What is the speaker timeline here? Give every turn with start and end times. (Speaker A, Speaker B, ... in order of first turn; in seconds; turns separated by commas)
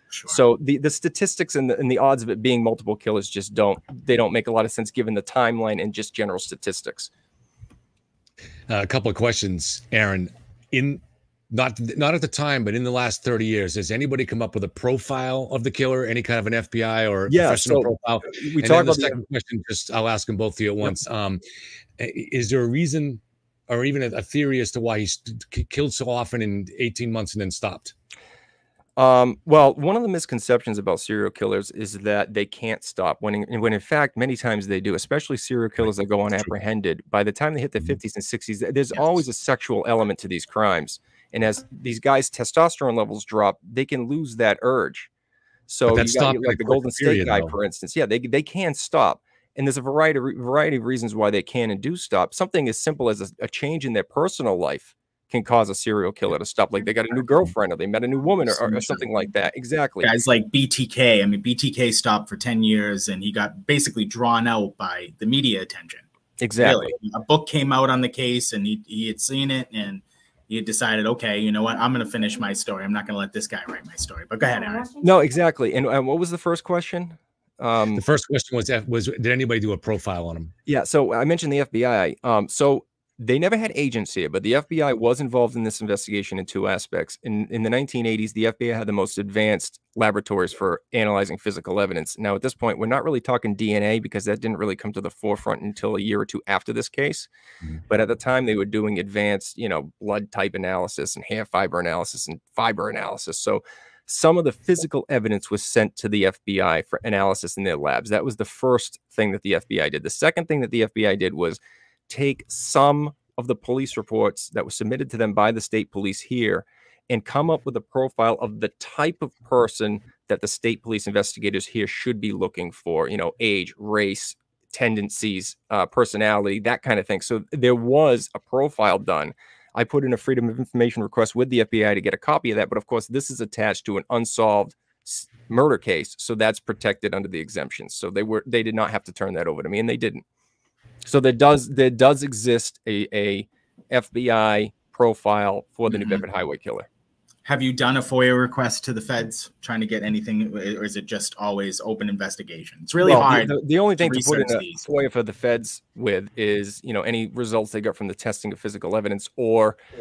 Speaker A: 0.1-0.4, Speaker B: 0.3-7.1, Speaker C: 8.7-21.4, Speaker B: 17.3-19.2, Speaker C: 22.0-27.9, Speaker B: 29.0-45.1, Speaker A: 38.9-39.2, Speaker B: 45.7-60.1, Speaker C: 45.9-47.5, Speaker A: 56.8-57.2, Speaker A: 58.4-59.3, Speaker A: 60.0-66.0, Speaker B: 66.4-66.9, Speaker A: 66.6-75.0, Speaker B: 75.0-78.0, Speaker C: 78.0-80.5, Speaker B: 80.7-97.3, Speaker B: 97.9-140.2, Speaker B: 141.0-146.9, Speaker A: 145.9-146.2, Speaker A: 147.4-154.9, Speaker B: 153.0-159.8